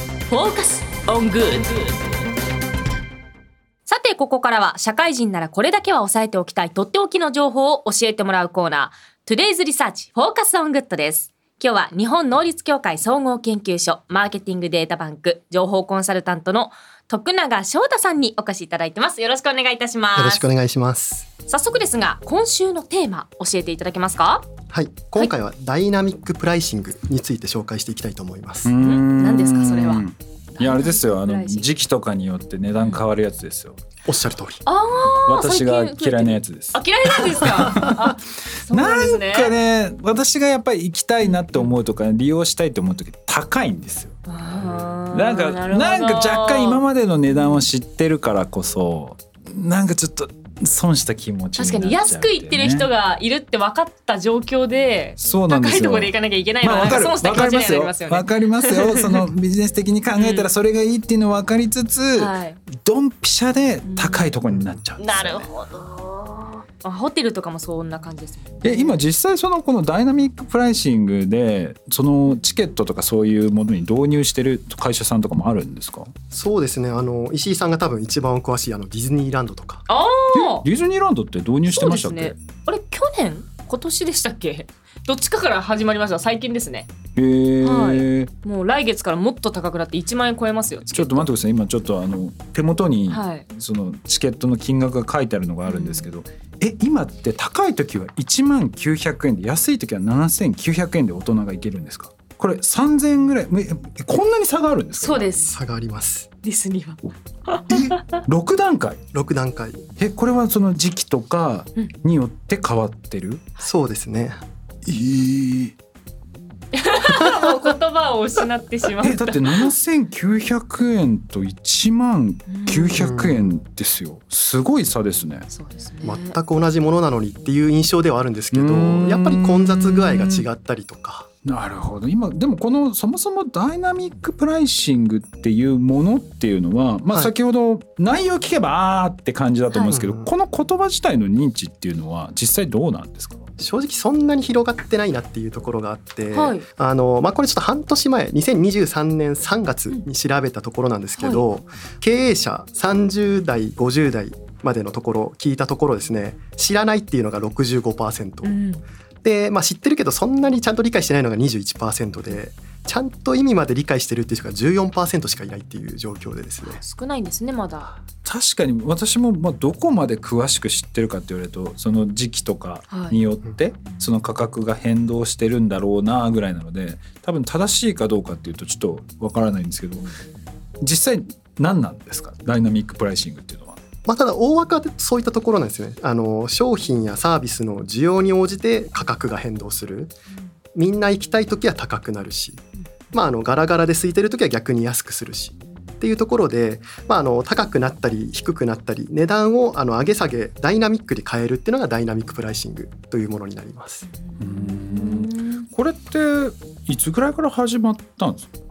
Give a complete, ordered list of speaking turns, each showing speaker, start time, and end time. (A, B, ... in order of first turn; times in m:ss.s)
0:00.3-0:02.0 A
0:03.9-0:20.4 A
0:20.2-0:21.3 B
0:21.5-0:24.5 A
0:24.7-0:28.7 B
0:28.6-0:33.8 C
0:28.8-0:31.7 A
0:34.1-0:34.6 B
0:34.7-0:39.6 A
0:35.3-0:38.1 C
0:38.7-0:44.2 C
0:41.2-0:41.7 A
0:44.3-0:47.6 A
0:45.1-0:52.9 C
0:51.6-0:59.2 A
0:55.2-1:05.5 C
1:00.2-1:00.5 A
1:02.2-1:02.6 A
1:03.8-1:04.3 A
1:05.0-1:09.0 A
1:08.6-1:16.1 C
1:16.3-1:19.8 B
1:19.9-1:20.7 A
1:20.3-1:22.4 C
1:21.7-1:26.9 A
1:27.2-1:28.3 C
1:27.6-1:31.3 A
1:30.9-1:45.3 C
1:33.1-1:33.4 A
1:35.7-1:36.1 A
1:45.0-1:45.5 A
1:45.5-1:46.3 B
1:46.4-1:48.2 A
1:47.7-1:49.0 C
1:49.1-1:49.9 B
1:50.0-1:53.4 C
1:53.6-1:54.4 B
1:54.9-1:55.7 C
1:56.7-1:59.7 A
1:57.1-1:57.3 B
1:59.0-2:05.5 C
2:02.5-2:03.0 A
2:02.9-2:03.5 B
2:05.5-2:06.4 A
2:06.0-2:11.3 B
2:08.5-2:10.5 C
2:11.4-2:23.4 C
2:17.1-2:17.3 B
2:19.9-2:20.3 B
2:23.6-2:38.5 B
2:26.3-2:26.7 A
2:31.2-2:31.4 A
2:38.4-2:38.8 A
2:39.2-2:46.8 B
2:46.6-2:48.0 A
2:48.2-3:00.1 C
2:52.9-2:53.2 A
3:00.8-3:03.8 C
3:04.1-3:10.1 B
3:10.7-3:24.1 B
3:24.1-3:25.7 A
3:24.4-3:28.5 C